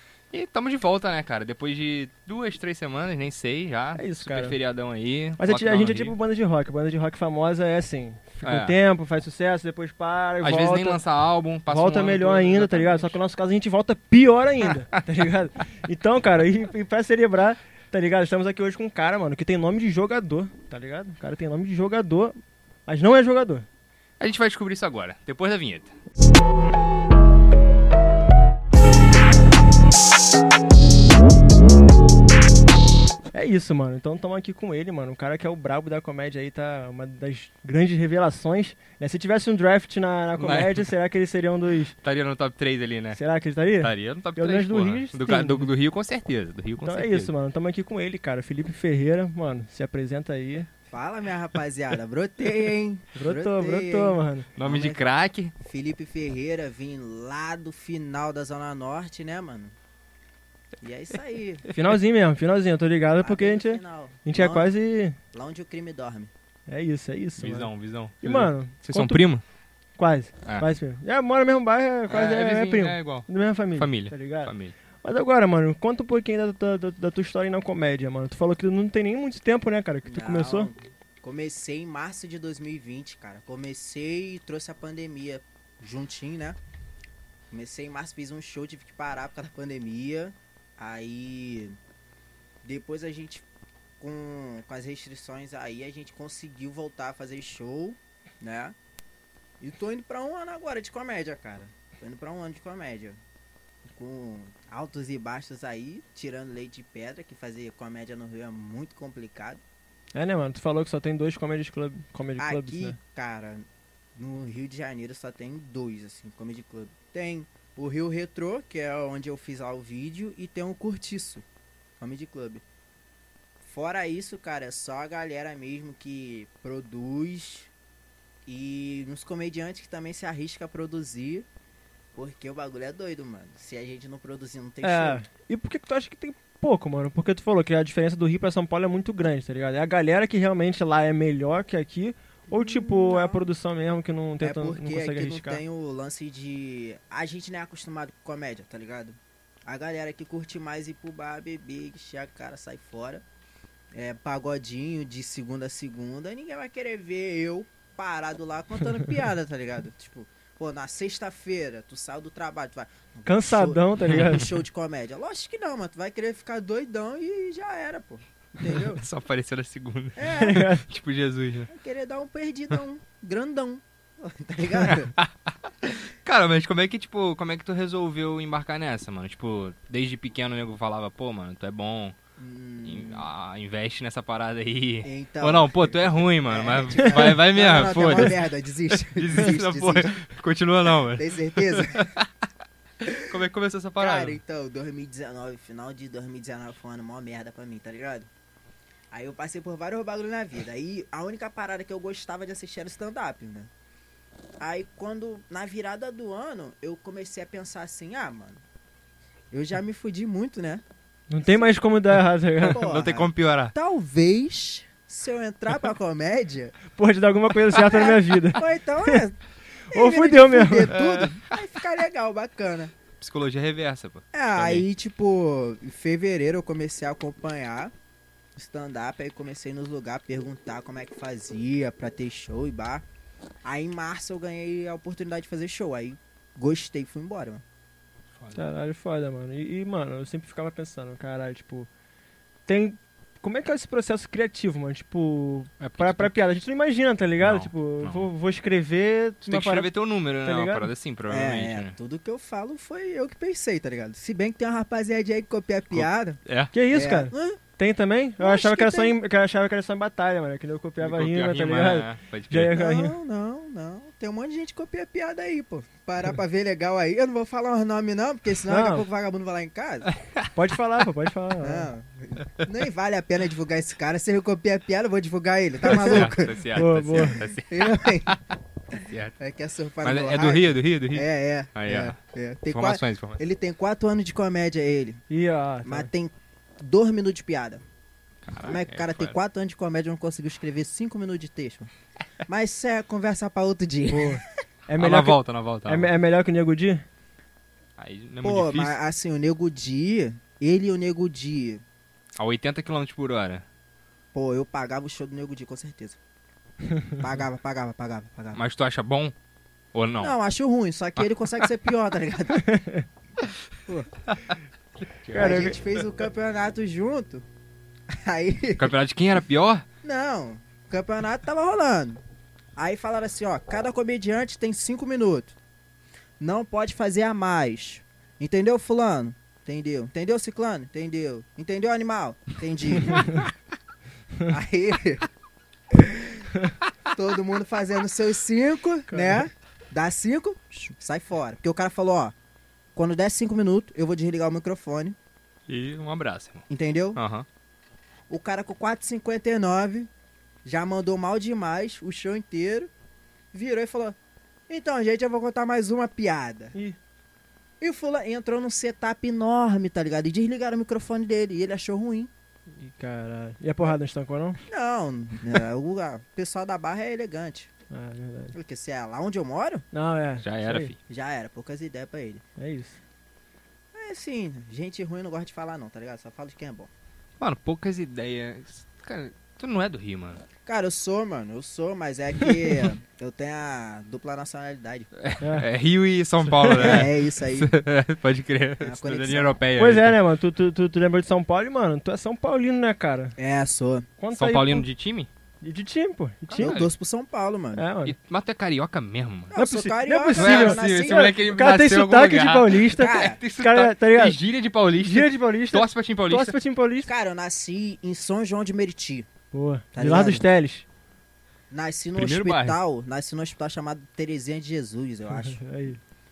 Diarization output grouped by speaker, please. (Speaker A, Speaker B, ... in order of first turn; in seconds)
Speaker A: 0.3-6.2, 8.4-8.8, 10.4-13.2, 24.2-25.9, 40.4-40.9, 42.0-43.2, 43.8-47.3, 54.6-55.5, 67.4-69.4, 72.1-74.7, 168.6-171.7, 174.8-182.2, 182.8-188.4, 189.1-192.3, 193.1-194.4, 212.6-213.7, 220.9-221.4, 223.2-224.9, 238.4-238.7, 245.8-246.3, 247.4-248.3, 249.4-252.0, 255.9-256.7, 261.0-262.8, 270.1-270.5, 275.8-278.4, 279.1-279.4, 280.0-282.2, 282.7-283.4, 288.5-289.4, 295.0-296.1, 298.0-299.0, 302.4-303.6, 308.5-309.3, 309.9-310.3, 314.3-315.7, 318.8-319.9, 345.7-346.6, 347.2-347.5, 370.4-371.0, 377.4-380.4, 385.2-390.2, 394.4-395.3, 396.5-396.9, 398.0-399.5, 400.4-406.6, 412.2-412.8
Speaker B: 4.0-4.6, 5.4-11.0, 11.7-22.4, 22.9-23.7, 33.3-42.0, 43.1-45.7, 46.8-50.7, 53.1-54.5, 61.7-65.2, 66.7-69.2, 70.0-80.7, 110.1-113.0, 134.8-145.6, 163.3-164.6, 170.3-170.9, 211.3-212.9, 216.9-219.2, 219.9-221.0, 238.5-241.9, 242.7-249.9, 250.4-250.9, 256.7-263.2, 268.7-269.1, 270.5-271.9, 276.7-277.4, 285.3-286.1, 294.1-297.0, 312.7-313.1, 315.3-315.8, 339.1-339.5, 362.8-364.6, 367.9-368.6, 369.9-370.9, 372.6-373.0, 385.4-385.7, 386.5-387.1, 389.8-393.4, 394.2-394.9, 395.6-396.8, 397.8-398.1, 399.6-404.4, 405.0-407.1, 409.5-410.8, 415.3-416.0
Speaker C: 50.9-55.0, 55.6-59.8, 60.8-61.6, 63.2-64.7, 65.3-66.3, 80.0-86.6, 87.5-91.8, 92.6-93.5, 94.0-98.8, 99.6-103.2, 103.9-109.6, 112.4-121.5, 122.0-122.6, 123.6-127.7, 128.5-131.5, 132.2-135.2, 142.5-143.4, 144.4-153.2, 153.9-169.0, 170.2-170.7, 171.7-175.1, 182.4-183.3, 185.0-190.2, 191.1-192.1, 194.0-198.3, 199.1-203.7, 204.6-208.6, 209.5-210.8, 211.4-211.8, 212.6-216.8, 217.8-219.4, 219.9-222.9, 224.3-227.9, 228.6-233.1, 233.6-237.6, 251.3-257.6, 258.4-259.1, 262.7-270.1, 271.6-276.6, 277.2-278.4, 279.0-285.2, 285.8-287.8, 288.6-291.9, 292.5-294.4, 298.4-301.8, 304.3-306.2, 307.2-308.6, 310.2-312.6, 315.4-317.4, 318.1-318.9, 320.0-322.2, 322.8-325.6, 326.4-333.4, 334.5-335.3, 335.9-336.5, 337.1-342.4, 342.9-345.2, 346.7-347.2, 348.3-350.1, 350.6-352.9, 353.5-354.2, 354.7-356.7, 357.8-362.3, 364.7-367.7, 368.5-369.9, 371.1-372.4, 373.9-376.9, 380.7-385.1, 386.7-387.8, 388.8-389.6, 393.4-394.1, 396.6-397.9, 399.5-401.3, 403.0-403.4, 407.1-409.3, 409.9-410.5, 411.7-415.6